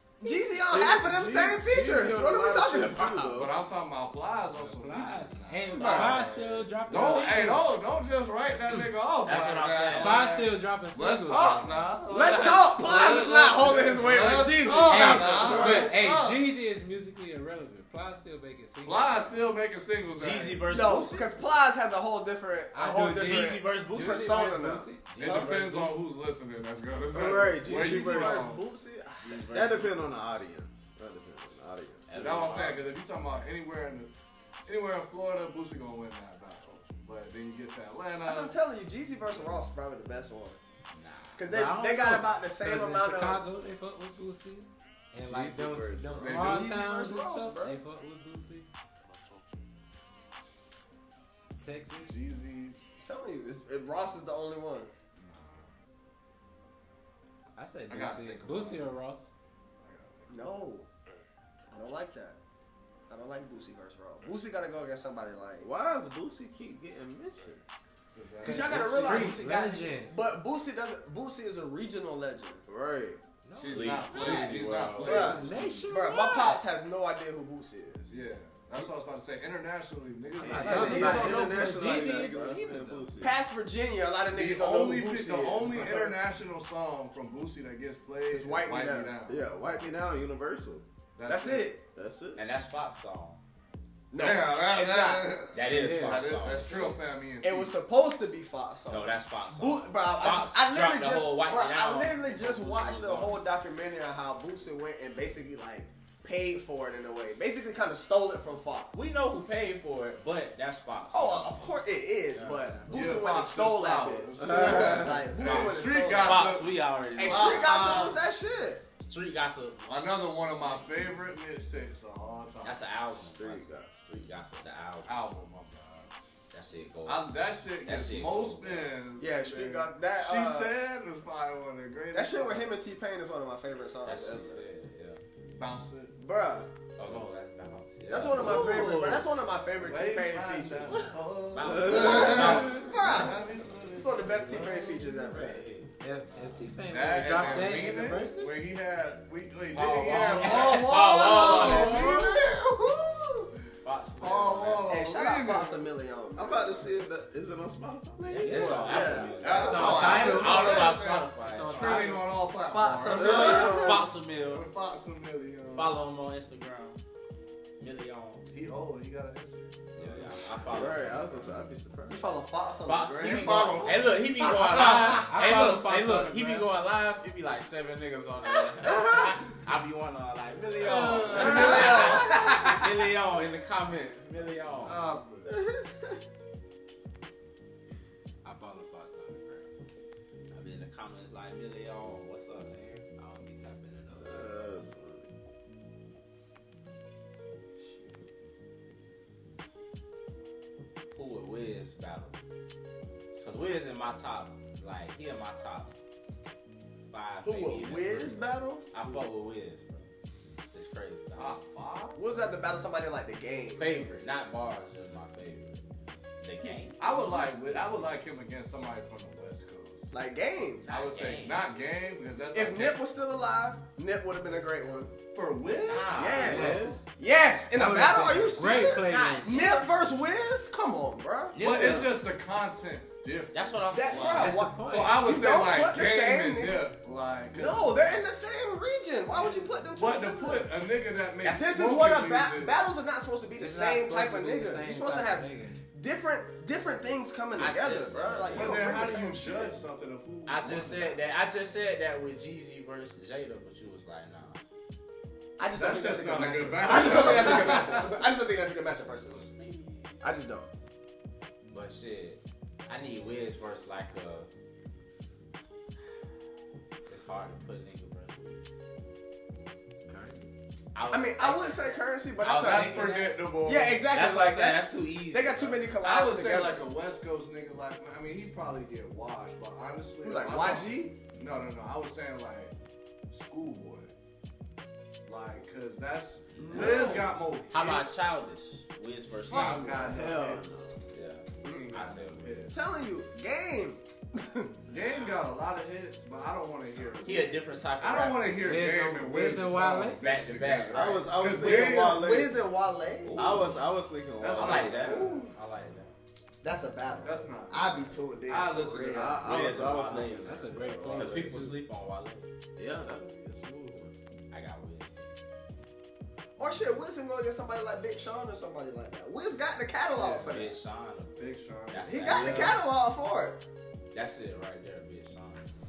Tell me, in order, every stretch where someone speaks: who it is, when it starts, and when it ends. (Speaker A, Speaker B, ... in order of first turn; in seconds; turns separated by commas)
Speaker A: 0.2-3.4, Speaker B: 0.6-3.6, Speaker C: 3.3-16.4, Speaker D: 4.5-7.8, Speaker A: 5.7-6.5, Speaker E: 5.9-7.4, Speaker E: 9.2-10.2, Speaker D: 9.9-12.3, Speaker A: 12.1-15.9, Speaker D: 14.6-19.5, Speaker C: 18.8-20.7, Speaker E: 20.1-21.4, Speaker A: 20.6-25.5, Speaker D: 22.7-25.2, Speaker E: 23.2-24.3, Speaker E: 25.1-26.0, Speaker C: 25.2-28.6, Speaker B: 27.1-28.5, Speaker A: 27.6-29.7, Speaker E: 29.2-29.9, Speaker B: 29.5-32.6, Speaker E: 32.1-32.9, Speaker C: 32.1-34.1, Speaker C: 34.6-38.6, Speaker A: 38.2-40.6, Speaker E: 40.9-41.4, Speaker A: 41.4-43.4, Speaker D: 41.4-48.7, Speaker B: 45.2-46.6, Speaker C: 46.1-46.8, Speaker A: 46.4-47.8, Speaker D: 51.6-52.2, Speaker C: 52.0-52.8, Speaker A: 53.0-54.9, Speaker C: 55.2-55.7, Speaker D: 57.5-59.3, Speaker C: 57.9-58.9, Speaker C: 59.8-60.5, Speaker A: 60.3-60.9, Speaker A: 61.7-62.4, Speaker A: 63.1-65.7, Speaker B: 65.6-67.6, Speaker C: 68.1-69.3, Speaker D: 68.4-70.2, Speaker A: 68.4-72.6, Speaker E: 69.0-70.1, Speaker B: 72.7-73.2, Speaker D: 73.4-76.6, Speaker C: 73.6-76.1, Speaker E: 73.6-75.3, Speaker A: 75.0-78.2, Speaker C: 78.1-81.3, Speaker B: 80.4-83.4, Speaker D: 80.4-83.2, Speaker A: 80.6-82.4, Speaker A: 83.2-86.2, Speaker C: 84.3-89.5, Speaker A: 88.3-89.2, Speaker B: 89.2-90.8, Speaker C: 91.2-91.7, Speaker A: 91.3-91.8, Speaker B: 91.9-92.4, Speaker E: 92.3-93.4, Speaker A: 94.1-95.4, Speaker C: 94.2-97.7, Speaker E: 95.5-97.0, Speaker D: 95.7-96.3, Speaker A: 97.4-109.0, Speaker E: 98.9-103.4, Speaker E: 108.9-113.2, Speaker A: 111.1-116.6, Speaker C: 112.9-118.2, Speaker E: 115.4-118.1, Speaker A: 117.2-118.8, Speaker E: 119.0-119.9, Speaker C: 119.8-122.9, Speaker E: 120.4-120.9, Speaker E: 122.6-125.3, Speaker B: 123.2-123.9, Speaker C: 125.1-126.1, Speaker E: 126.5-127.3, Speaker C: 127.1-132.8, Speaker E: 127.8-128.9, Speaker A: 129.2-130.7, Speaker A: 132.1-134.6, Speaker E: 134.0-135.2, Speaker C: 135.6-136.2, Speaker A: 136.2-136.7, Speaker E: 137.0-138.8, Speaker A: 138.1-141.1, Speaker C: 138.3-139.2, Speaker B: 138.4-139.2, Speaker C: 139.8-145.2, Speaker E: 141.5-143.0, Speaker A: 142.1-143.4, Speaker A: 143.9-145.6, Speaker E: 145.2-146.6, Speaker D: 146.0-148.6, Speaker C: 146.9-152.6, Speaker E: 147.3-147.8, Speaker E: 149.7-152.2, Speaker D: 149.9-150.8, Speaker A: 151.3-152.8, Speaker E: 153.8-154.9, Speaker C: 154.2-155.9, Speaker A: 154.9-156.9, Speaker B: 156.4-159.3, Speaker E: 158.2-162.2, Speaker D: 158.4-162.4, Speaker A: 158.8-160.6, Speaker C: 159.4-166.0, Speaker A: 162.6-164.1, Speaker B: 163.1-164.0, Speaker E: 163.2-164.7, Speaker E: 165.7-167.0, Speaker E: 167.8-168.5, Speaker C: 168.5-171.5, Speaker E: 169.9-171.2, Speaker B: 170.7-172.3, Speaker A: 172.1-174.0, Speaker E: 172.9-185.1, Speaker C: 173.1-175.5, Speaker D: 174.7-176.7, Speaker C: 180.8-182.4, Speaker A: 181.3-182.5, Speaker D: 182.4-182.8, Speaker C: 184.6-185.6, Speaker B: 185.4-186.1, Speaker D: 188.4-189.7, Speaker E: 190.5-193.1, Speaker D: 193.2-194.7, Speaker B: 194.1-195.3, Speaker E: 201.1-202.4, Speaker E: 203.4-205.9, Speaker E: 207.1-208.4, Speaker A: 207.4-208.9, Speaker E: 208.9-210.1, Speaker E: 210.7-211.6, Speaker C: 211.3-212.2, Speaker A: 212.2-214.1, Speaker E: 213.8-217.3, Speaker C: 217.0-220.1, Speaker A: 220.1-220.8, Speaker E: 220.8-221.6, Speaker C: 220.9-223.0, Speaker A: 222.5-225.1, Speaker C: 225.3-226.6, Speaker E: 225.9-226.8, Speaker A: 226.1-231.6, Speaker D: 226.4-227.0, Speaker B: 226.4-227.0, Speaker D: 227.7-229.7, Speaker E: 228.9-229.9, Speaker E: 231.5-232.2, Speaker C: 231.6-238.0, Speaker E: 233.5-234.6, Speaker A: 233.9-236.9, Speaker D: 234.4-235.3, Speaker A: 237.5-240.7, Speaker C: 239.9-242.8, Speaker A: 241.4-249.8, Speaker D: 243.6-245.8, Speaker E: 247.6-248.9, Speaker C: 248.5-251.2, Speaker E: 250.4-254.6, Speaker A: 255.6-259.5, Speaker C: 255.7-258.2, Speaker E: 257.1-257.8, Speaker E: 259.3-260.2, Speaker A: 260.2-260.7, Speaker E: 261.7-264.5, Speaker E: 267.1-268.7, Speaker D: 270.1-270.5, Speaker E: 270.9-273.4, Speaker A: 271.1-276.9, Speaker C: 272.4-274.1, Speaker E: 274.0-275.9, Speaker C: 276.0-282.7, Speaker A: 280.2-281.2, Speaker C: 283.3-284.1, Speaker C: 285.2-288.1, Speaker E: 286.6-287.2, Speaker A: 286.6-287.4, Speaker E: 287.7-290.4, Speaker C: 289.5-290.9, Speaker D: 289.5-290.0, Speaker B: 290.1-290.9, Speaker E: 291.1-292.7, Speaker C: 291.6-292.8, Speaker A: 292.7-294.8, Speaker E: 294.9-295.4, Speaker C: 294.9-302.3, Speaker A: 296.9-297.6, Speaker E: 297.2-298.7, Speaker D: 298.6-300.2, Speaker E: 300.2-301.3, Speaker B: 300.9-302.6, Speaker A: 301.4-303.7, Speaker E: 303.2-303.9, Speaker B: 303.4-305.3, Speaker C: 304.4-305.4, Speaker E: 304.4-306.1, Speaker A: 304.9-305.5, Speaker A: 306.6-309.7, Speaker C: 307.2-310.2, Speaker B: 309.1-311.8, Speaker E: 309.4-312.5, Speaker D: 310.4-311.8, Speaker B: 312.8-314.1, Speaker E: 314.5-315.2, Speaker A: 316.6-320.8, Speaker E: 320.1-322.8, Speaker B: 320.3-320.6, Speaker C: 321.4-322.8, Speaker A: 322.1-323.6, Speaker E: 324.1-325.7